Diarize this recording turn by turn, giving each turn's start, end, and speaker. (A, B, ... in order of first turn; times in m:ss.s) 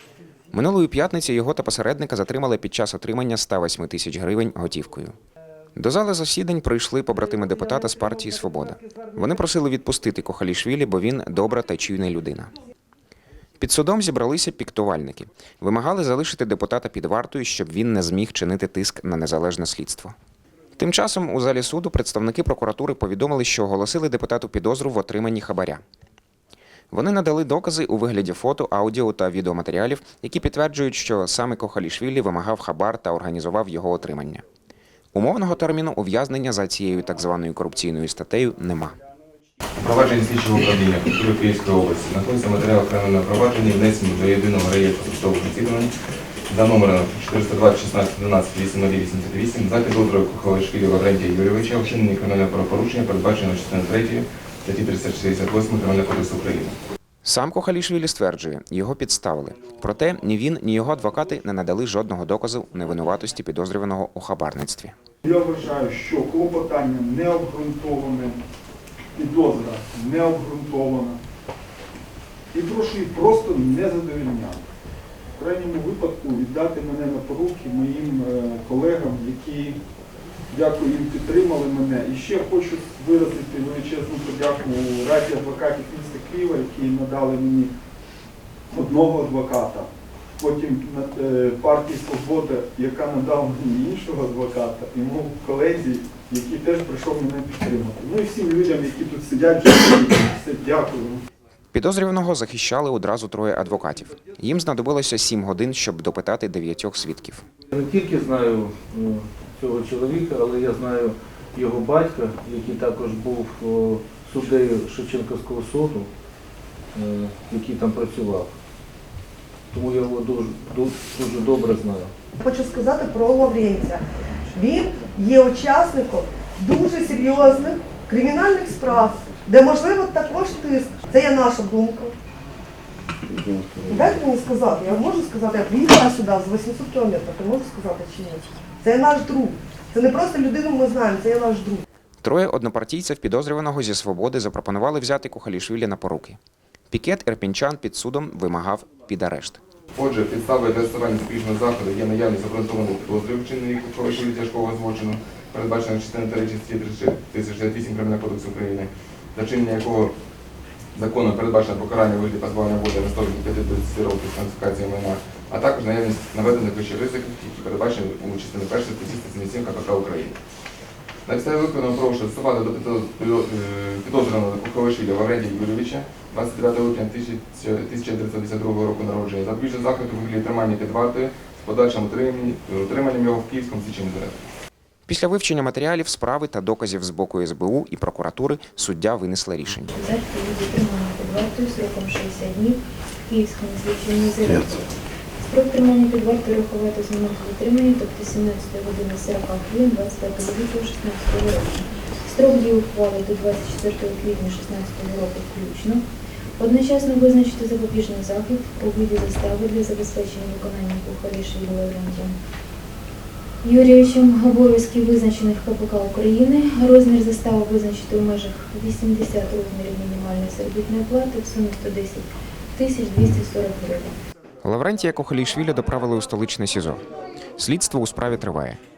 0:00.5-0:05.1 A
0:05.7-0:12.5 A
0:13.6-0:20.1 A
0:20.8-0:25.8 A
0:26.9-0:34.4 A
0:35.1-0:39.0 A
0:39.8-0:45.9 B
0:46.5-0:56.8 B
0:57.2-1:04.9 A
1:05.2-1:08.4 C
1:09.1-1:11.2 C
1:12.5-1:14.6 C
1:15.4-1:19.8 C
1:20.5-1:27.7 C
1:28.7-1:41.2 C
1:41.7-1:47.4 A
1:47.7-1:56.1 D
1:56.9-1:58.5 D
1:59.7-2:02.1 D
2:02.4-2:12.1 E
2:13.8-2:21.8 E
2:22.2-2:26.4 A
2:26.9-2:29.6 A
2:29.9-2:40.1 B
2:40.9-2:50.4 B
2:51.2-3:04.4 B
3:05.1-3:09.9 A
3:09.9-3:26.0 F
3:26.6-3:32.3 F
3:33.6-3:44.2 F
3:44.6-3:47.0 A
3:47.6-3:48.8 A